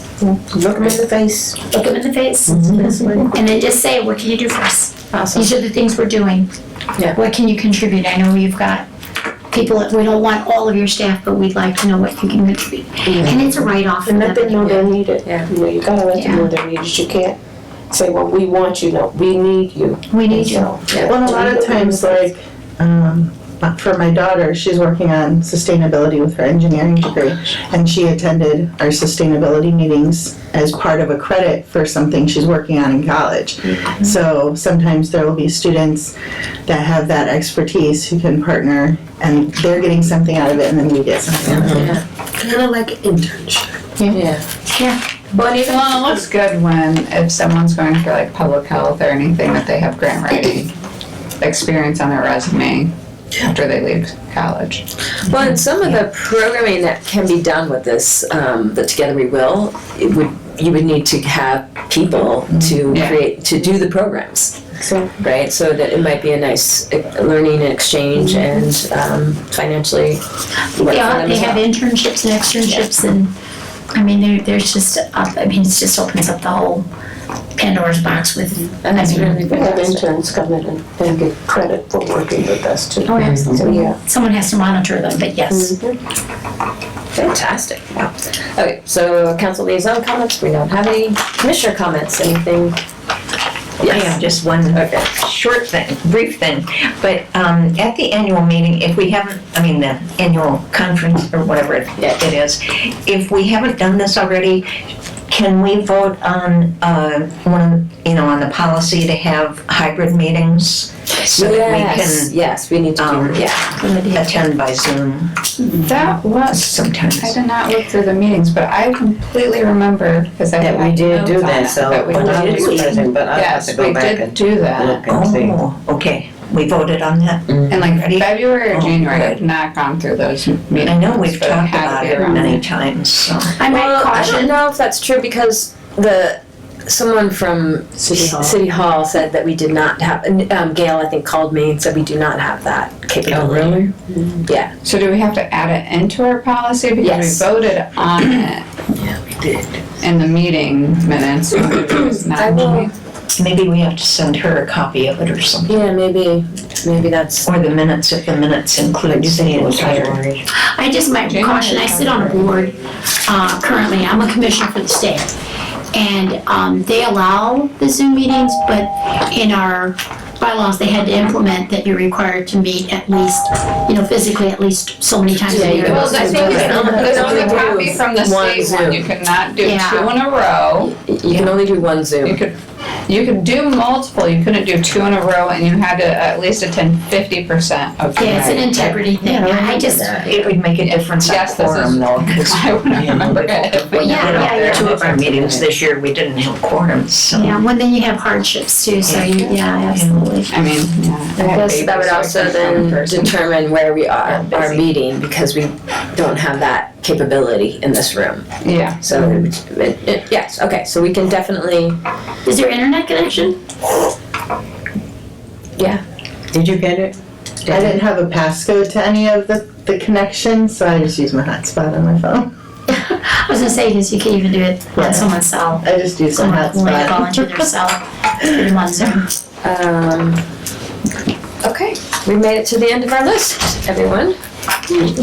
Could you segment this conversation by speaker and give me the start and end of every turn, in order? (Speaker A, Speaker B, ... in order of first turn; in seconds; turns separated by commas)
Speaker A: 0.2-1.6, Speaker B: 1.7-6.5, Speaker A: 2.5-3.3, Speaker C: 5.1-5.5, Speaker B: 7.1-8.8, Speaker B: 9.5-14.8, Speaker C: 13.1-13.6, Speaker A: 14.0-17.4, Speaker C: 14.6-15.5, Speaker B: 16.1-16.5, Speaker A: 17.9-22.3, Speaker B: 20.1-20.7, Speaker C: 20.9-21.2, Speaker D: 21.0-36.1, Speaker D: 36.6-44.2, Speaker C: 41.4-42.0, Speaker C: 44.1-44.4, Speaker B: 44.7-45.0, Speaker C: 45.3-46.0, Speaker E: 45.5-50.7, Speaker E: 51.4-54.8, Speaker C: 55.2-70.2, Speaker E: 62.9-63.2, Speaker A: 64.8-65.2, Speaker A: 68.2-68.5, Speaker B: 70.7-73.3, Speaker C: 70.8-71.6, Speaker B: 73.9-76.8, Speaker B: 77.5-80.1, Speaker C: 78.9-79.4, Speaker A: 78.9-84.0, Speaker B: 83.1-85.8, Speaker C: 83.2-83.8, Speaker C: 87.1-92.8, Speaker C: 93.8-94.2, Speaker F: 93.8-104.7, Speaker C: 94.7-95.0, Speaker F: 105.3-112.3, Speaker C: 111.3-113.8, Speaker F: 113.0-113.5, Speaker B: 113.8-114.2, Speaker F: 114.0-115.4, Speaker B: 115.7-116.0, Speaker E: 115.8-125.1, Speaker F: 116.5-117.4, Speaker G: 120.6-125.5, Speaker A: 122.2-122.8, Speaker F: 125.0-129.4, Speaker E: 127.7-132.6, Speaker F: 130.8-133.6, Speaker B: 133.6-134.6, Speaker C: 133.7-143.9, Speaker A: 138.2-138.5, Speaker E: 143.3-143.9, Speaker C: 144.4-144.7, Speaker E: 144.8-148.7, Speaker C: 147.0-147.5, Speaker C: 149.3-149.7, Speaker E: 150.0-152.9, Speaker C: 152.1-152.9, Speaker F: 153.3-155.8, Speaker C: 155.7-157.5, Speaker F: 157.4-160.2, Speaker A: 159.5-160.1, Speaker B: 160.6-165.3, Speaker E: 161.2-162.2, Speaker B: 165.9-177.6, Speaker C: 175.5-179.0, Speaker E: 175.8-181.4, Speaker B: 179.6-180.1, Speaker C: 180.8-182.4, Speaker E: 182.2-182.5, Speaker E: 183.1-188.9, Speaker B: 188.2-190.5, Speaker A: 189.4-189.9, Speaker F: 190.1-192.7, Speaker E: 190.8-194.9, Speaker G: 192.9-193.9, Speaker B: 193.9-195.0, Speaker F: 194.1-197.6, Speaker B: 197.3-200.5, Speaker F: 199.1-200.3, Speaker E: 200.5-203.3, Speaker C: 201.4-208.5, Speaker E: 204.4-204.7, Speaker E: 208.6-209.4, Speaker C: 209.0-212.0, Speaker B: 212.4-213.6, Speaker C: 215.8-216.0, Speaker G: 216.5-217.1, Speaker G: 217.7-217.9, Speaker D: 217.7-222.5, Speaker B: 222.9-229.2, Speaker D: 224.9-227.5, Speaker C: 229.6-230.4, Speaker C: 231.6-234.4